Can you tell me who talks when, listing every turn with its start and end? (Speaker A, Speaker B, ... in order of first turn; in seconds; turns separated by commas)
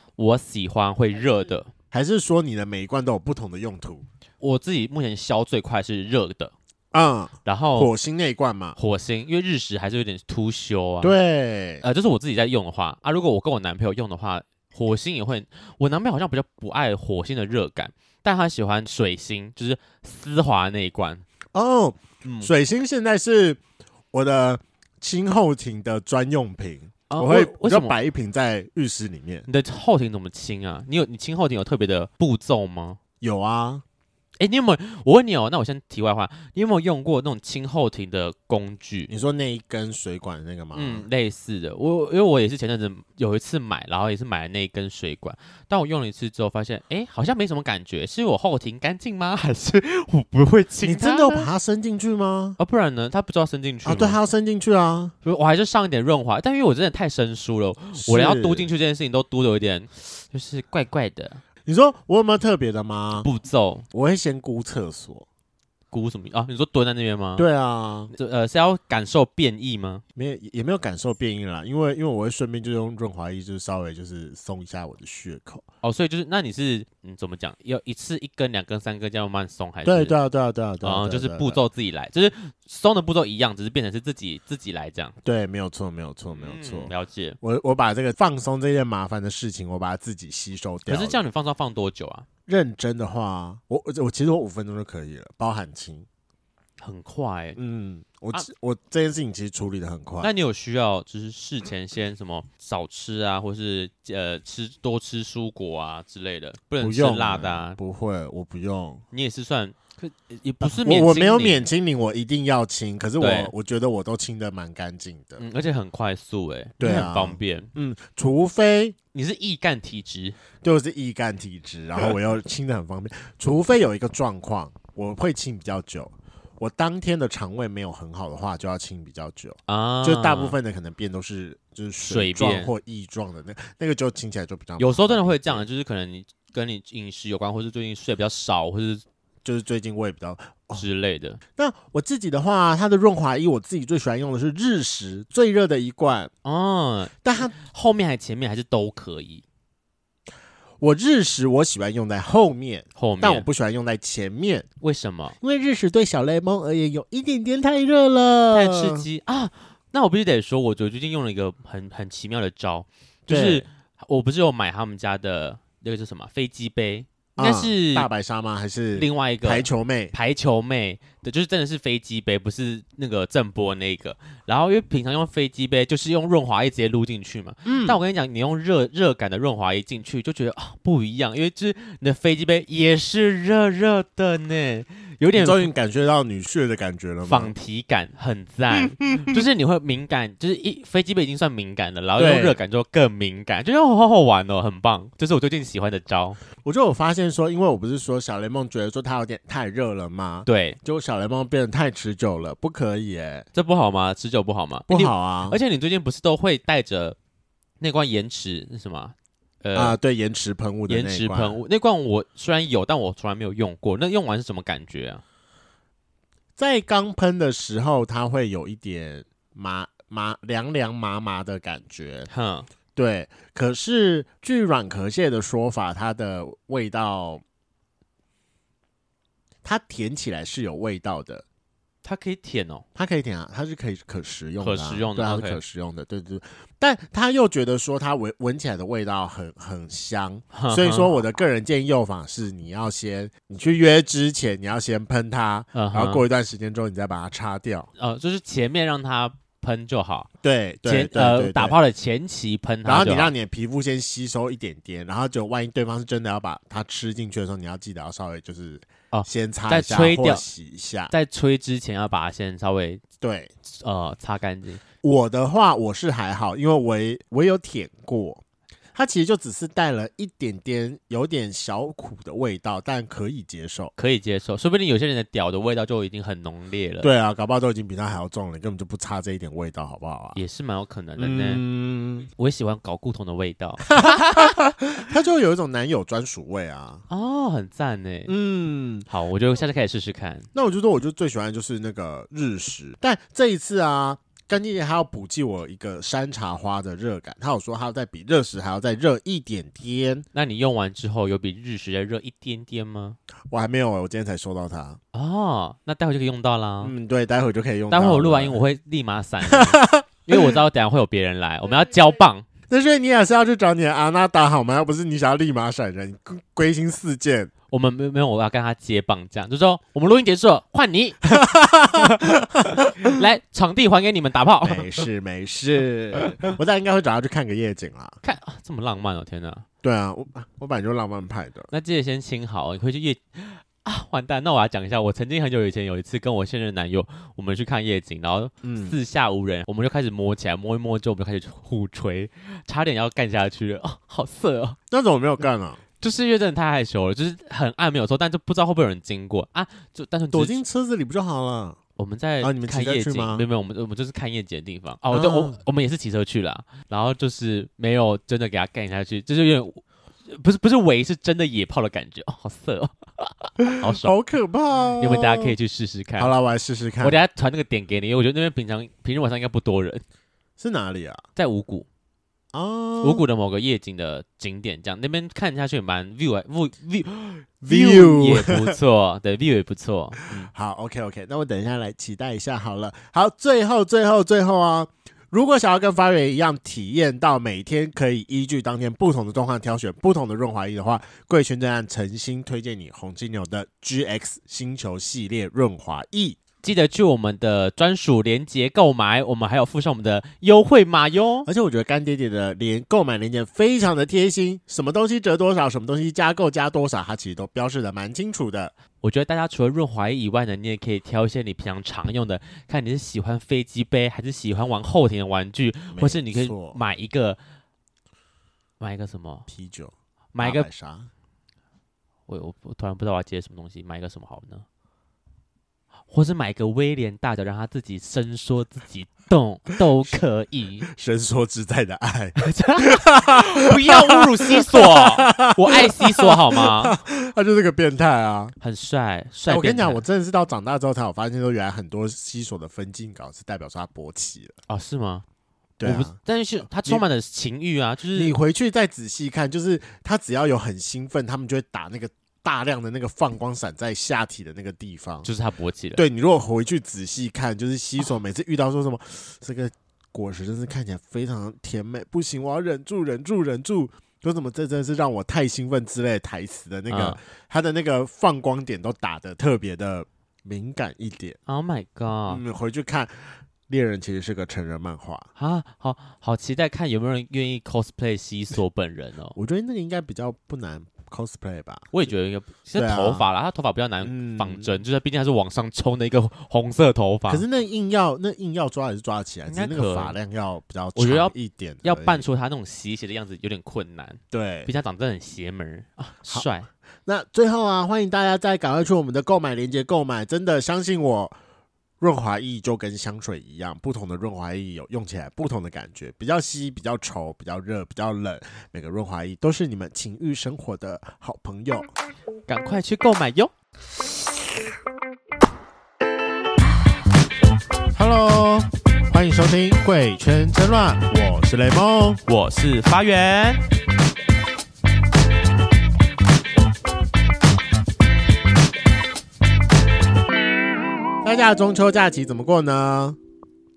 Speaker A: 0.2-1.7, Speaker B: 1.9-4.0, Speaker A: 4.4-6.5, Speaker B: 6.9-8.8, Speaker A: 7.5-7.9, Speaker A: 8.8-11.2, Speaker B: 11.0-11.8, Speaker A: 11.8-21.2, Speaker B: 21.5-23.6, Speaker A: 22.2-22.5, Speaker B: 24.1-29.5, Speaker A: 27.1-28.0, Speaker A: 29.5-33.0, Speaker B: 33.2-33.8, Speaker A: 34.4-39.1, Speaker B: 39.1-41.0, Speaker A: 40.7-51.5, Speaker B: 50.8-52.6, Speaker A: 52.6-54.2, Speaker B: 53.9-55.1, Speaker A: 55.2-61.4, Speaker B: 58.0-58.7, Speaker B: 61.7-63.3, Speaker A: 63.2-63.9, Speaker B: 63.9-65.3, Speaker A: 65.9-67.5, Speaker B: 67.4-68.1, Speaker A: 68.1-70.0, Speaker B: 70.2-75.6, Speaker A: 75.8-80.2, Speaker B: 79.8-81.6, Speaker A: 80.8-85.2, Speaker B: 85.2-86.9, Speaker A: 86.3-87.4, Speaker B: 87.4-91.2, Speaker A: 90.9-92.3, Speaker B: 92.5-96.1, Speaker A: 96.8-97.6, Speaker B: 97.6-100.3, Speaker A: 100.2-107.8, Speaker B: 106.8-109.0, Speaker A: 109.1-111.7, Speaker B: 110.6-115.4, Speaker A: 113.2-113.5, Speaker A: 115.4-117.7, Speaker B: 116.8-119.0, Speaker A: 119.1-120.4, Speaker B: 120.6-135.7, Speaker A: 129.7-130.6, Speaker A: 132.0-132.7, Speaker A: 134.8-139.0, Speaker B: 139.4-140.8, Speaker A: 140.8-141.4, Speaker B: 141.6-146.3, Speaker A: 146.4-149.4, Speaker B: 147.2-147.6, Speaker B: 150.8-154.7, Speaker A: 153.0-153.5, Speaker A: 154.8-155.4, Speaker B: 155.4-159.1, Speaker A: 158.5-168.1, Speaker B: 163.3-163.7, Speaker B: 167.4-170.2, Speaker A: 168.9-185.7, Speaker B: 177.7-178.0, Speaker B: 185.4-187.5, Speaker A: 187.3-196.4, Speaker B: 189.0-189.4, Speaker B: 192.2-192.6, Speaker B: 196.6-203.5, Speaker A: 200.5-200.8, Speaker A: 203.6-207.2, Speaker B: 204.9-205.6, Speaker A: 207.8-210.0, Speaker B: 209.8-211.6, Speaker A: 210.9-215.2, Speaker B: 216.6-222.3, Speaker A: 222.3-222.7, Speaker B: 223.0-227.4, Speaker B: 229.6-231.4, Speaker A: 232.0-232.8, Speaker B: 233.0-247.9, Speaker A: 234.6-235.6, Speaker A: 240.5-241.2, Speaker A: 245.7-246.2, Speaker A: 248.0-250.3, Speaker B: 250.4-251.8, Speaker A: 250.9-253.3, Speaker B: 252.9-261.1, Speaker A: 259.1-260.4, Speaker A: 261.1-263.0, Speaker B: 263.2-263.5, Speaker A: 263.8-264.8, Speaker B: 265.0-268.4, Speaker B: 268.9-273.9, Speaker A: 274.0-277.1, Speaker B: 277.0-280.4, Speaker A: 280.4-281.6, Speaker B: 281.2-282.3, Speaker A: 282.4-284.6, Speaker B: 283.9-287.0, Speaker A: 287.1-288.3, Speaker B: 288.3-289.1, Speaker A: 289.1-290.5, Speaker B: 290.6-300.3, Speaker A: 300.3-303.2, Speaker B: 303.5-305.0, Speaker A: 305.1-306.9, Speaker B: 306.8-308.6, Speaker A: 307.9-312.5, Speaker B: 309.5-310.5, Speaker B: 312.7-317.5, Speaker A: 317.7-325.0, Speaker B: 321.3-323.1, Speaker B: 324.6-328.2, Speaker A: 328.2-329.7, Speaker B: 329.8-331.7, Speaker A: 331.7-344.8, Speaker B: 338.6-338.9, Speaker B: 344.9-345.8, Speaker A: 346.0-350.6, Speaker B: 350.3-351.8, Speaker A: 352.0-364.1, Speaker B: 352.4-353.4, Speaker B: 355.1-355.6, Speaker B: 363.8-365.5, Speaker A: 365.0-366.3, Speaker B: 366.2-367.2, Speaker A: 367.0-370.0, Speaker B: 370.6-371.2, Speaker A: 371.4-371.9, Speaker B: 372.5-373.2, Speaker A: 373.0-380.5, Speaker B: 377.6-378.8, Speaker B: 380.3-396.4, Speaker A: 396.6-401.5, Speaker B: 401.5-408.7, Speaker A: 409.0-417.4, Speaker B: 415.9-416.8, Speaker A: 418.8-419.5, Speaker B: 419.5-421.1, Speaker A: 420.3-420.7, Speaker A: 422.3-424.6, Speaker A: 426.1-430.9, Speaker B: 430.9-438.6, Speaker A: 432.4-437.0, Speaker A: 438.6-440.0, Speaker B: 439.5-444.6, Speaker A: 444.7-445.2, Speaker B: 445.8-446.2, Speaker A: 445.8-448.4, Speaker B: 448.1-455.3, Speaker A: 455.2-456.0, Speaker B: 456.0-471.4, Speaker A: 466.9-467.2, Speaker A: 471.5-472.4, Speaker B: 472.3-475.3, Speaker A: 475.4-479.4, Speaker B: 479.4-481.9, Speaker A: 481.9-487.4, Speaker B: 482.8-483.3, Speaker B: 484.0-484.7, Speaker B: 487.3-492.2, Speaker A: 489.5-490.1, Speaker A: 490.9-496.7, Speaker B: 494.3-494.7, Speaker B: 497.1-501.4, Speaker B: 502.0-511.9, Speaker A: 512.5-513.5, Speaker B: 517.9-522.2, Speaker A: 522.3-523.6, Speaker B: 531.2-533.2